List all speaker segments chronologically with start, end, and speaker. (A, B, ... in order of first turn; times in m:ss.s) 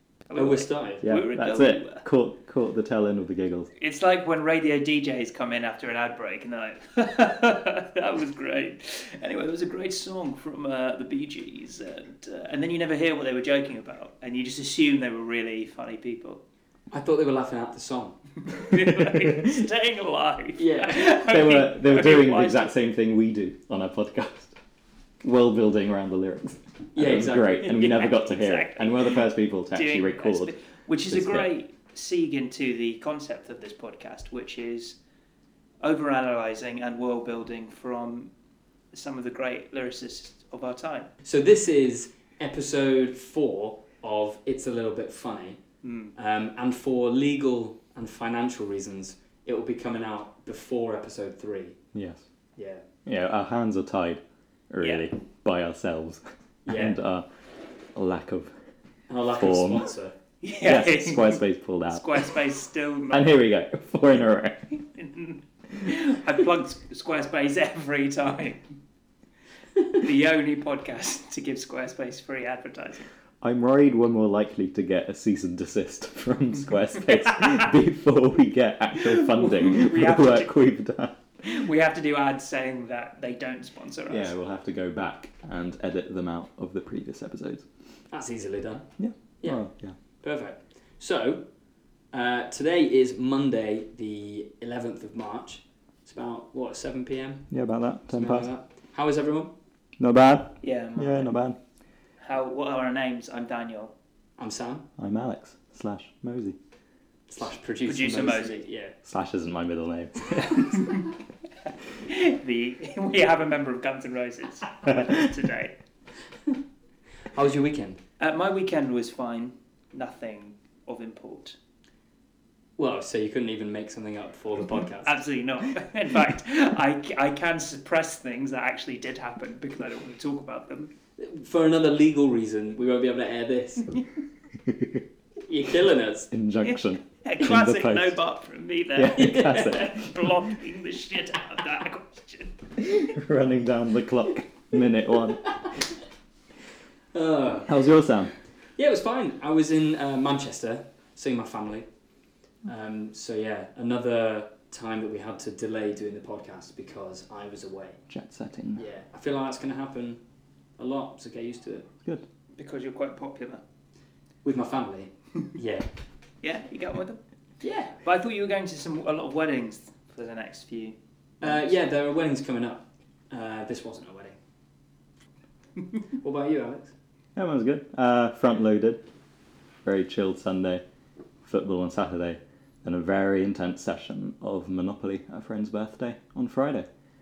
0:00.3-0:02.0 A
0:00.3-0:01.0 B
0:01.0-0:03.7 C
0:03.8-0:16.4 A
0:16.9-0:18.2 B
0:18.5-0:22.7 A
0:18.7-0:19.6 C
0:20.6-0:21.0 B
0:21.3-0:24.6 C
0:25.2-0:30.5 C
0:27.0-0:27.6 B
0:27.5-0:35.0 A
0:31.1-0:31.5 C
0:35.8-0:38.3 A
0:38.9-0:41.1 A
0:41.2-0:45.6 B
0:45.8-0:46.1 A
0:46.2-0:51.8 B
0:51.9-0:52.2 C
0:52.6-0:52.8 B
0:53.0-0:57.2 C
0:54.8-0:55.1 A
0:56.6-0:57.0 B
0:57.9-0:58.5 C
0:59.1-1:00.1 B
0:59.3-0:59.9 C
1:00.4-1:01.4 A
1:00.6-1:02.3 C
1:01.9-1:03.3 A
1:03.1-1:04.7 C
1:04.7-1:08.7 A
1:09.9-1:13.0 A
1:13.4-1:21.2 C
1:17.2-1:17.7 A
1:18.9-1:20.5 A
1:21.4-1:24.3 A
1:24.1-1:27.6 C
1:28.1-1:28.9 B
1:29.0-1:30.0 C
1:30.2-1:31.4 B
1:32.1-1:37.5 B
1:37.5-1:38.5 C
1:38.1-1:39.5 B
1:40.0-1:41.6 C
1:40.6-1:41.3 A
1:42.2-1:43.9 A
1:44.4-1:44.9 B
1:45.0-1:46.6 C
1:47.3-1:49.0 B
1:47.8-1:48.6 A
1:49.0-1:50.8 C
1:50.5-1:51.1 A
1:52.0-1:55.8 A
1:57.3-1:58.0 B
1:58.2-2:01.6 A
2:02.8-2:05.2 B
2:05.0-2:10.9 A
2:11.2-2:14.0 B
2:14.6-2:15.0 C
2:15.5-2:16.3 B
2:16.3-2:18.2 C
2:16.6-2:22.5 A
2:18.9-2:20.4 C
2:19.2-2:19.8 B
2:22.8-2:25.4 C
2:27.1-2:27.7 B
2:27.6-2:28.3 C
2:28.8-2:31.9 B
2:32.6-2:38.0 B
2:38.1-2:38.8 C
2:38.8-2:40.2 B
2:40.8-2:41.9 B
2:42.5-2:43.6 A
2:44.4-2:45.9 B
2:46.4-2:47.2 A
2:47.6-2:48.0 B
2:48.0-2:51.7 A
2:51.4-2:54.3 B
2:56.2-2:56.9 B
2:57.4-2:59.0 C
2:59.8-3:00.8 C
3:01.4-3:06.9 C